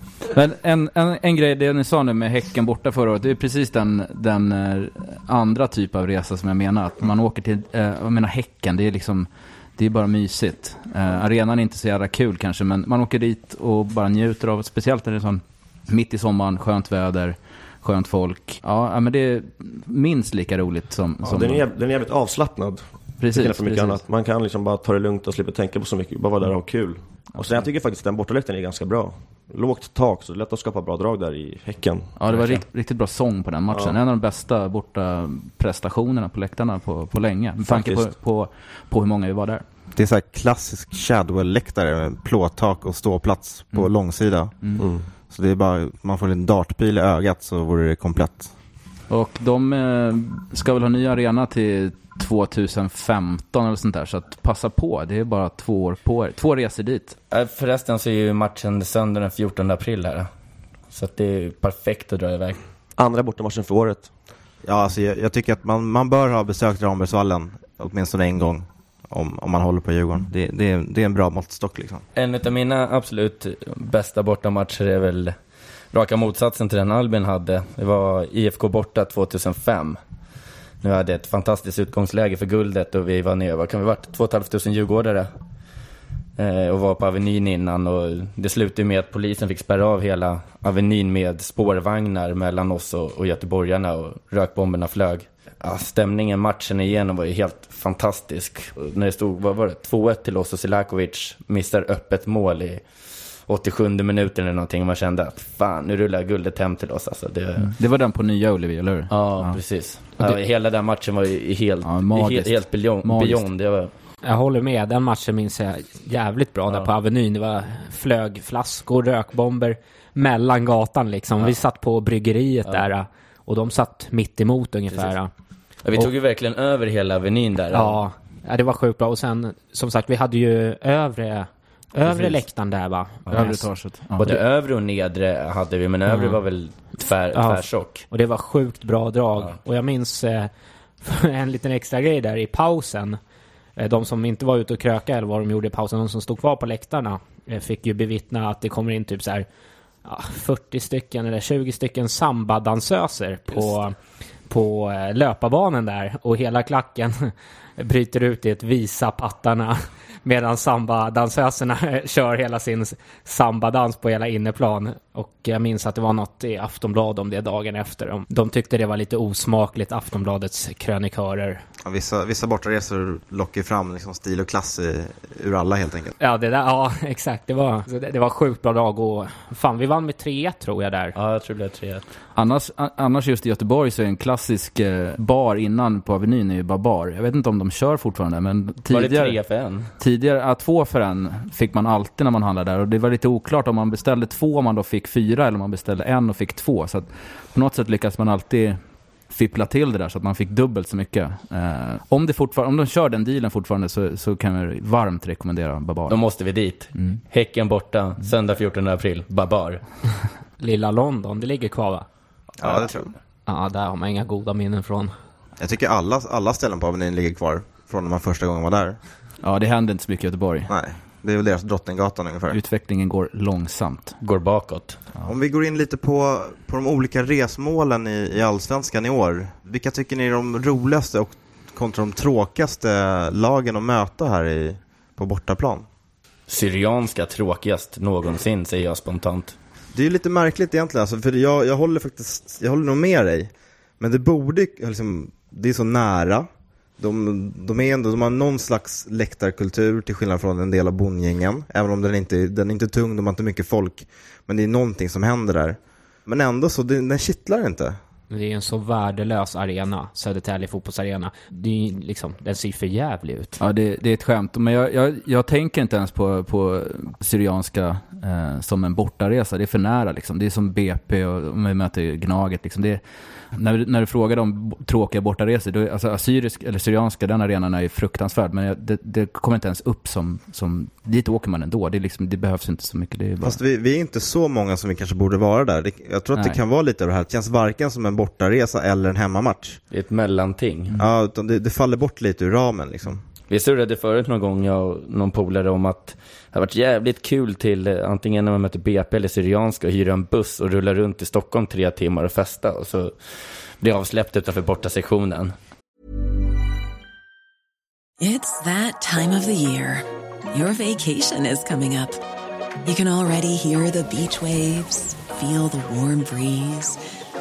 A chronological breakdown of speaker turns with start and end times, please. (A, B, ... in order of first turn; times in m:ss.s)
0:00.3-0:21.6 A
0:21.2-0:32.7 B
0:23.2-0:24.0 A
0:32.2-0:39.6 A
0:33.7-0:34.0 B
0:37.6-0:38.1 B
0:40.0-0:44.6 C
0:44.8-0:45.1 B
0:45.3-0:48.5 C
0:49.1-0:57.2 A
0:57.3-1:00.3 D
1:00.9-1:02.6 D
1:03.0-1:04.1 B
1:04.6-1:12.0 C
1:12.2-1:15.4 D
1:15.9-1:20.0 D
1:20.8-1:25.3 D
1:26.4-1:42.8 D
1:43.5-1:47.7 D
1:47.6-1:49.6 A
1:49.1-1:53.9 D
1:51.8-1:53.5 A
1:54.2-2:05.3 E
2:05.8-2:08.0 D
2:07.7-2:13.7 E
2:13.3-2:14.4 A
2:14.2-2:18.0 D
2:17.3-2:23.2 E
2:23.8-2:29.5 E
2:30.0-2:34.0 E
2:34.5-2:51.6 E
2:51.8-2:56.1 C
2:56.2-3:01.2 E
3:01.2-3:02.1 D
3:02.4-3:09.4 A
3:08.9-3:09.9 D
3:10.0-3:26.2 A
3:26.1-3:29.8 D
3:27.0-3:27.2 A
3:30.6-3:32.1 E
3:32.6-3:33.1 C
3:33.5-3:35.1 E
3:35.6-3:39.0 C
3:39.4-3:40.7 A
3:40.7-3:42.6 C
3:42.5-3:44.2 A
3:44.2-3:45.0 D
3:45.3-3:55.9 C
3:56.5-3:59.6 D
3:59.9-4:06.5 C
4:07.0-4:18.0 C
4:18.3-4:23.6 E
4:23.6-4:43.6 A
4:43.4-4:49.8 C
4:49.9-4:50.9 D
4:51.0-4:53.2 C
4:53.5-5:05.5 D
5:08.2-5:12.2 F
5:12.8-5:17.0 F